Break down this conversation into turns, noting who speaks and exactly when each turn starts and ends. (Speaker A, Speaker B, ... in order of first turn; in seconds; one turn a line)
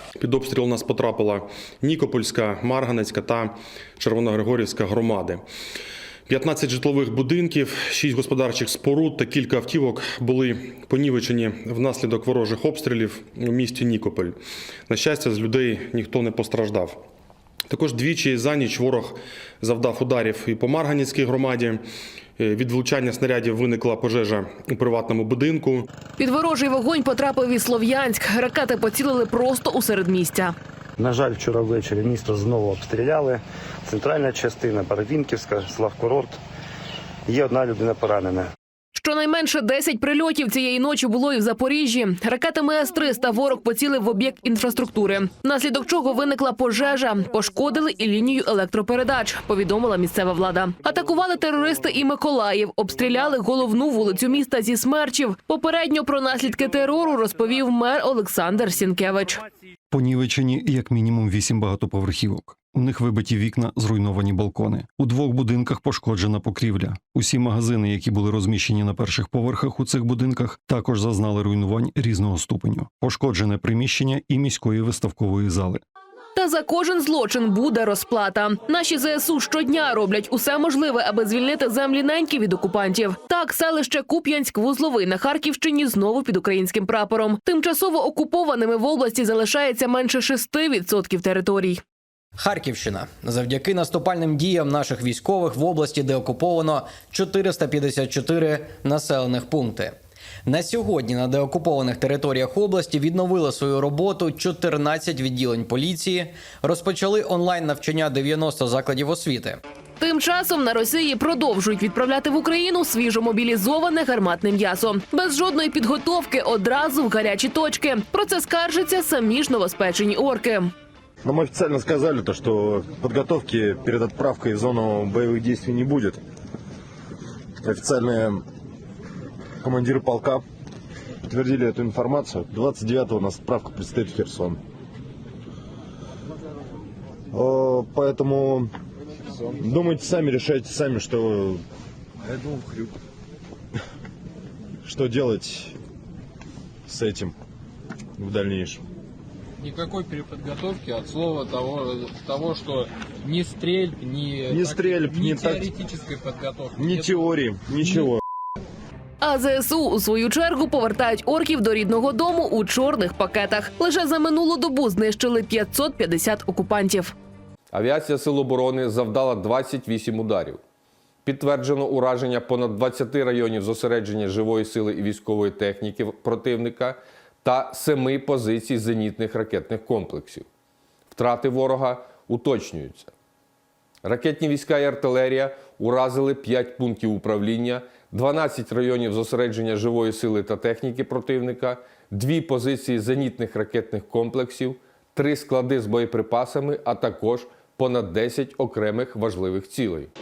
Speaker A: 0.2-5.4
Speaker A: 6.3-14.3
Speaker A: 14.9-16.9
Speaker A: 17.7-21.8
Speaker A: 22.4-25.9
Speaker B: 26.2-30.5
Speaker C: 31.0-36.4
Speaker C: 37.2-38.5
Speaker B: 38.9-59.4
Speaker D: 59.9-75.8
Speaker B: 76.3-91.8
Speaker E: 92.4-109.6
Speaker B: 110.0-120.7
Speaker F: 121.2-126.2
Speaker F: 127.6-128.4
Speaker F: 129.6-130.4
Speaker F: 131.3-134.6
Speaker F: 137.3-138.7
Speaker F: 139.5-141.6
Speaker G: 142.3-142.9
Speaker F: 144.8-145.8
Speaker F: 146.9-147.3
Speaker F: 148.2-148.8
Speaker G: 149.6-157.3
Speaker F: 154.5-155.7
Speaker F: 156.8-158.2
Speaker B: 159.2-167.1
Speaker H: 167.7-170.6
Speaker H: 171.2-180.4
Speaker H: 181.1-183.1
Speaker H: 184.0-200.1